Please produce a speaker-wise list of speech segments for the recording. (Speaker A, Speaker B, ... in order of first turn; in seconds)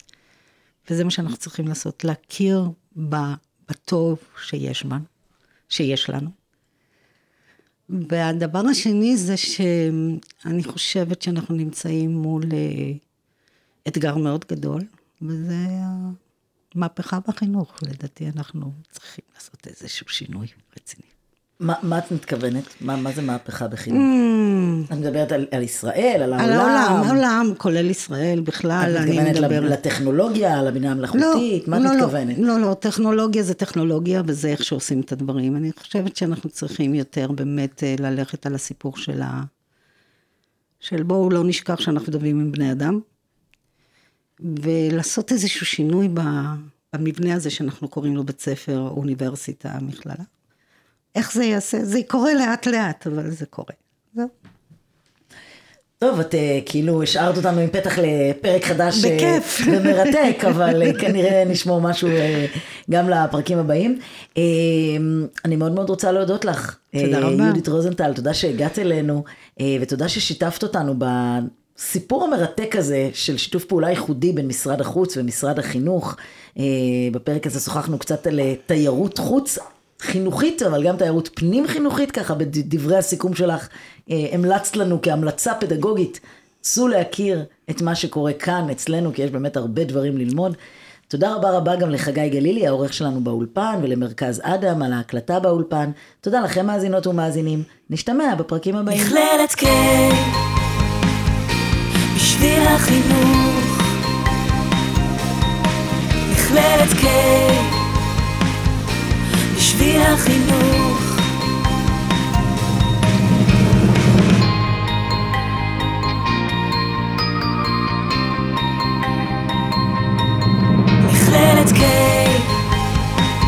Speaker A: 0.9-5.1, 5.7-6.3, 7.9-13.0, 13.9-16.2, 16.8-21.1, 23.9-24.9, 26.4-29.8, 31.1-39.5, 40.8-43.0, 44.4-50.3, 51.1-54.3, 58.9-61.2, 67.0-67.6
Speaker B: 21.6-24.1, 24.9-27.2, 28.8-32.4, 56.0-90.6, 91.1-99.2
Speaker C: 98.9-100.4, 102.1-104.0, 106.3-107.9, 109.5-111.3, 121.0-122.5